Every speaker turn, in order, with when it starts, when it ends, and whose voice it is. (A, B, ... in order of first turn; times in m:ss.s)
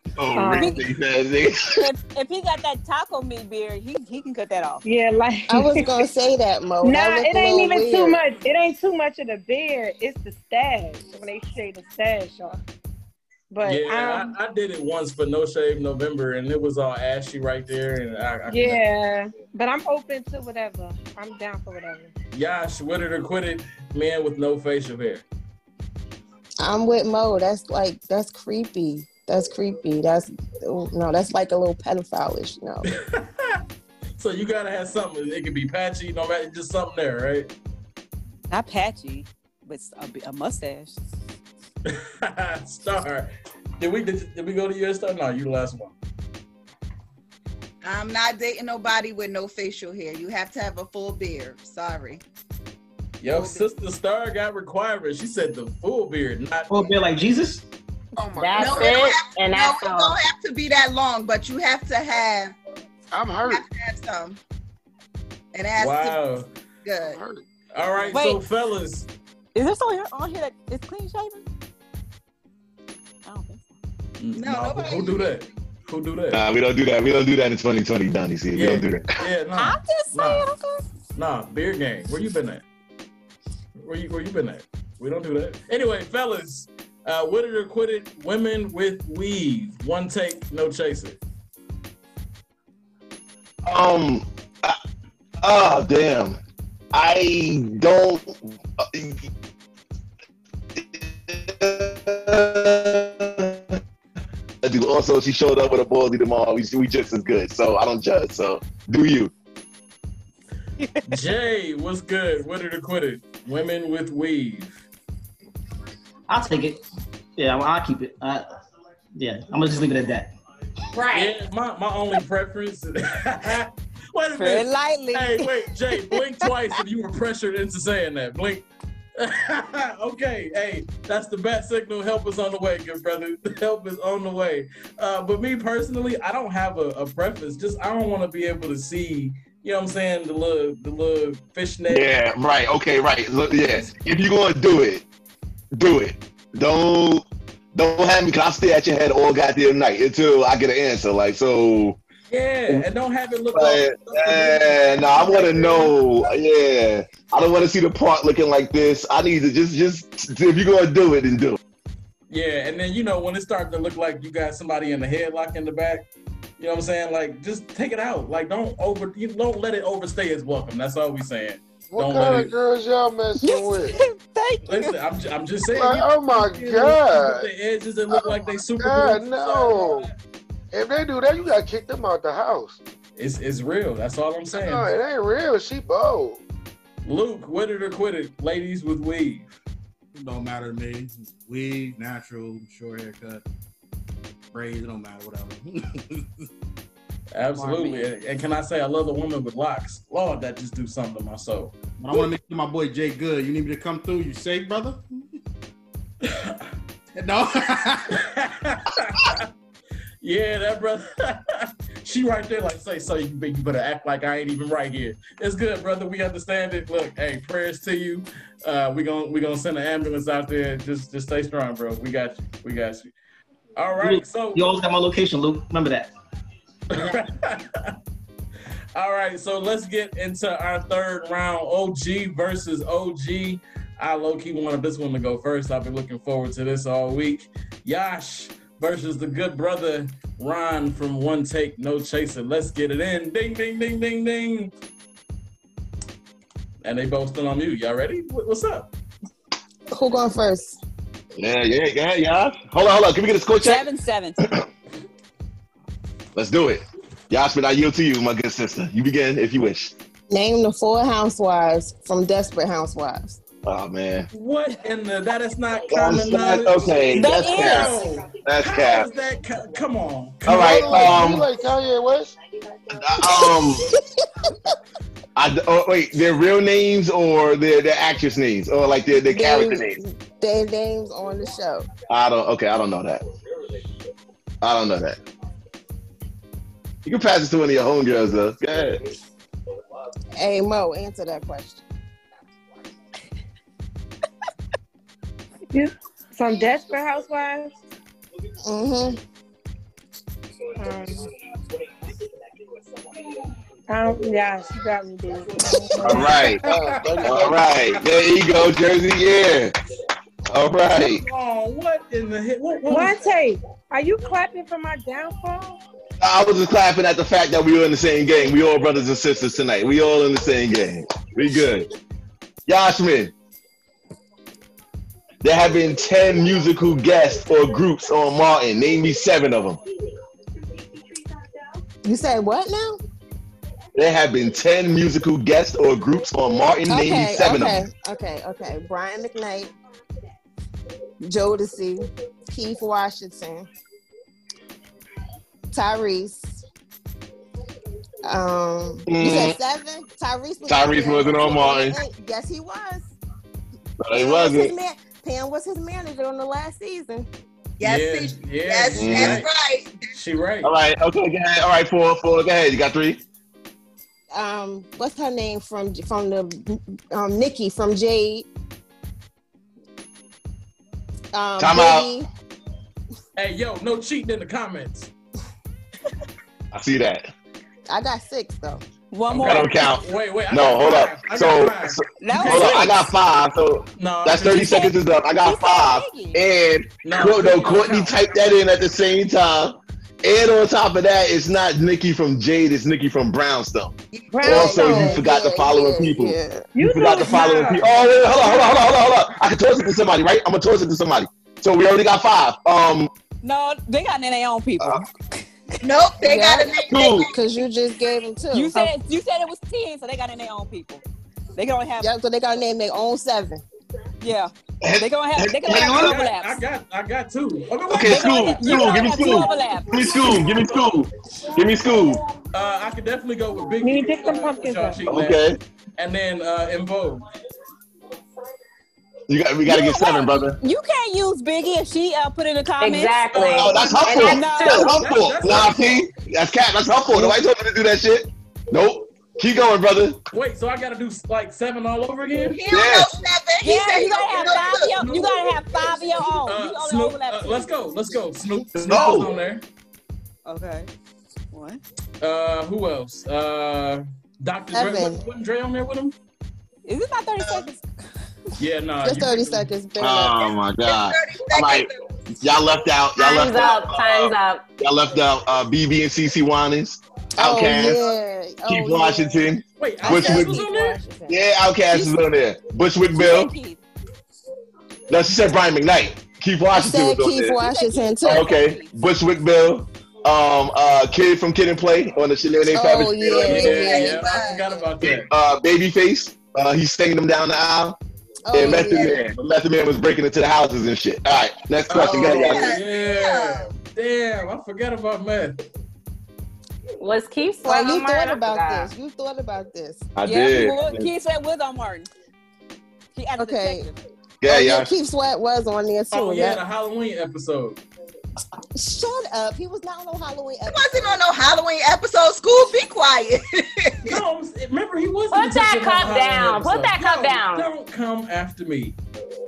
0:00.2-0:01.8 A
0:00.3-0:00.7 B
0:00.5-0:00.8 C
0:01.8-0:04.8 C
0:04.8-0:05.9 B
0:05.5-0:08.2 D
0:06.8-0:12.6 B
0:13.5-0:14.3 B
0:13.6-0:18.8 E
0:18.5-0:22.1 B
0:22.3-0:25.2 E
0:26.6-0:32.8 D
0:32.8-0:33.6 E
0:34.2-0:37.5 E
0:38.5-0:41.0 C
0:41.9-0:45.9 E
0:47.8-0:52.2 F
0:53.2-0:57.0 E
0:53.3-0:53.6 F
0:56.7-0:57.6 G
0:58.2-0:59.0 H
0:58.4-1:00.1 I
0:58.6-1:02.5 F
1:03.1-1:03.6 H
1:03.5-1:04.4 F
1:05.5-1:06.2 F
1:05.8-1:06.5 E
1:06.8-1:07.2 F
1:07.0-1:07.4 H
1:07.7-1:09.1 E
1:08.1-1:08.4 C
1:09.5-1:11.4 C
1:13.2-1:13.7 C
1:14.2-1:16.4 E
1:14.4-1:15.4 F
1:16.3-1:19.1 A
1:18.5-1:20.4 E
1:19.6-1:20.8 C
1:21.1-1:22.6 E
1:23.8-1:31.2 E
1:33.6-1:34.8 A
1:35.4-1:36.4 A
1:36.9-1:39.3 A
1:40.8-1:43.8 A
1:44.6-1:49.3 A
1:51.1-1:54.8 E
1:56.3-1:56.8 G
1:57.4-1:58.5 G
1:59.1-2:00.3 G
2:01.0-2:01.2 I
2:01.1-2:08.6 E
2:04.4-2:05.5 C
2:09.2-2:22.1 E
2:21.9-2:25.0 A
2:25.7-2:32.0 A
2:32.3-2:36.0 E
2:33.5-2:41.6 A
2:42.3-2:46.0 E
2:46.6-2:52.5 E
2:51.9-2:54.0 H
2:53.4-2:55.0 C
2:54.6-3:00.1 E
2:55.7-2:57.5 H
2:58.1-3:00.1 H
3:00.7-3:02.8 H
3:03.2-3:04.9 E
3:04.5-3:06.4 H
3:07.0-3:09.5 E
3:10.1-3:13.4 J
3:14.5-3:16.2 J
3:17.3-3:21.7 E
3:17.5-3:18.1 C
3:22.0-3:25.0 J
3:26.2-3:26.6 E
3:27.2-3:28.2 J
3:28.2-3:29.5 E
3:30.2-3:43.1 E
3:43.8-3:44.7 E
3:44.0-3:46.1 G
3:46.9-3:47.9 E
3:48.9-4:04.7 E
4:06.8-4:08.9 E
4:09.9-4:10.8 D
4:11.4-4:13.8 A
4:13.6-4:14.4 C
4:16.3-4:19.9 A
4:20.3-4:23.4 D
4:23.6-4:24.3 A
4:24.3-4:31.4 E
4:25.9-4:29.1 A
4:27.1-4:28.0 C
4:30.4-4:31.4 A
4:30.5-4:32.3 H
4:32.9-4:33.9 A
4:33.3-4:33.7 D
4:35.4-4:40.0 A
4:39.3-4:41.9 D
4:42.1-4:43.2 A
4:44.6-4:45.2 A
4:47.0-4:49.0 A
4:50.4-4:51.8 D
4:55.7-4:57.7 B
4:58.6-4:59.2 D
5:00.8-5:01.3 B
5:03.9-5:06.4 B
5:06.0-5:06.6 A
5:06.1-5:07.4 E
5:06.1-5:07.7 H
5:07.2-5:09.7 A
5:10.5-5:11.2 A
5:10.9-5:13.3 E
5:12.9-5:15.8 B
5:16.2-5:21.9 A
5:22.7-5:23.3 A
5:25.4-5:29.8 A
5:32.0-5:33.0 D
5:33.9-5:37.8 A
5:36.8-5:39.7 D
5:41.2-5:43.7 D
5:45.7-5:46.6 D
5:48.2-5:53.1 D
5:49.1-5:49.6 A
5:50.6-5:52.0 A
5:54.0-5:54.7 A
5:54.1-5:57.3 D
5:57.8-6:00.1 F
5:57.8-5:59.5 E
5:58.9-5:59.4 A
6:00.1-6:00.7 E
6:00.6-6:03.2 A
6:04.3-6:08.5 D
6:11.3-6:12.3 D
6:11.6-6:12.1 A
6:13.4-6:15.1 E
6:16.7-6:17.3 A
6:17.9-6:18.8 D
6:19.1-6:19.8 C
6:19.3-6:23.0 E
6:19.4-6:43.1 A
6:22.2-6:23.0 C
6:24.0-6:24.9 E
6:24.6-6:26.4 C
6:27.0-6:28.4 E
6:34.1-6:34.6 F
6:34.3-6:35.2 B
6:34.4-6:36.7 D
6:36.7-6:37.8 B
6:43.4-6:45.4 C
6:45.8-6:47.3 F
6:46.2-6:48.9 D
6:46.9-6:47.3 A
6:48.5-6:51.0 C
6:51.6-6:52.1 C
6:52.0-6:53.6 D
6:54.2-6:56.6 C
6:54.8-6:56.2 A
6:55.6-6:59.4 E
6:57.9-7:02.2 A
6:58.0-7:00.1 C
7:02.5-7:05.4 E
7:03.8-7:05.0 B
7:05.1-7:05.6 A
7:06.0-7:07.2 E
7:09.3-7:10.6 A
7:09.6-7:13.7 C
7:12.8-7:14.9 I
7:13.3-7:16.1 E
7:13.3-7:20.2 A
7:14.2-7:14.9 C
7:20.3-7:22.6 E
7:22.5-7:25.0 F
7:22.7-7:23.1 A
7:23.6-7:27.7 C
7:25.0-7:25.4 E
7:26.4-7:29.6 E
7:28.8-7:29.3 A
7:30.4-7:30.9 C
7:31.5-7:31.8 C
7:32.2-7:36.1 E
7:34.7-7:35.2 D
7:36.8-7:37.8 C
7:37.4-7:37.7 F
7:38.6-7:39.7 E
7:39.0-7:40.5 D
7:40.0-7:41.9 A
7:40.8-7:42.0 F
7:42.4-7:48.0 A
7:43.2-7:44.6 I
7:47.4-7:49.5 D
7:48.7-7:50.6 A
7:49.8-7:51.0 E
7:50.0-7:51.4 D
7:51.3-7:53.5 A
7:51.9-7:52.2 C
7:53.1-7:53.8 C
7:55.1-7:57.6 A
7:56.7-7:58.5 D
7:57.5-7:58.9 C
7:58.2-8:03.8 A
8:02.7-8:04.8 D
8:03.4-8:04.7 F
8:03.4-8:05.3 E
8:05.0-8:08.0 A
8:08.4-8:09.2 D
8:08.5-8:12.8 A
8:08.6-8:09.1 F
8:11.9-8:15.6 E
8:12.0-8:13.7 F
8:17.0-8:18.9 I
8:17.6-8:20.1 D
8:20.2-8:21.1 A
8:20.2-8:22.1 C
8:23.1-8:23.9 C
8:23.4-8:23.9 D
8:24.4-8:24.9 A
8:24.4-8:26.6 D
8:26.1-8:27.8 E
8:28.7-8:31.2 D
8:30.7-8:34.1 F
8:34.0-8:39.0 E
8:35.3-8:37.7 I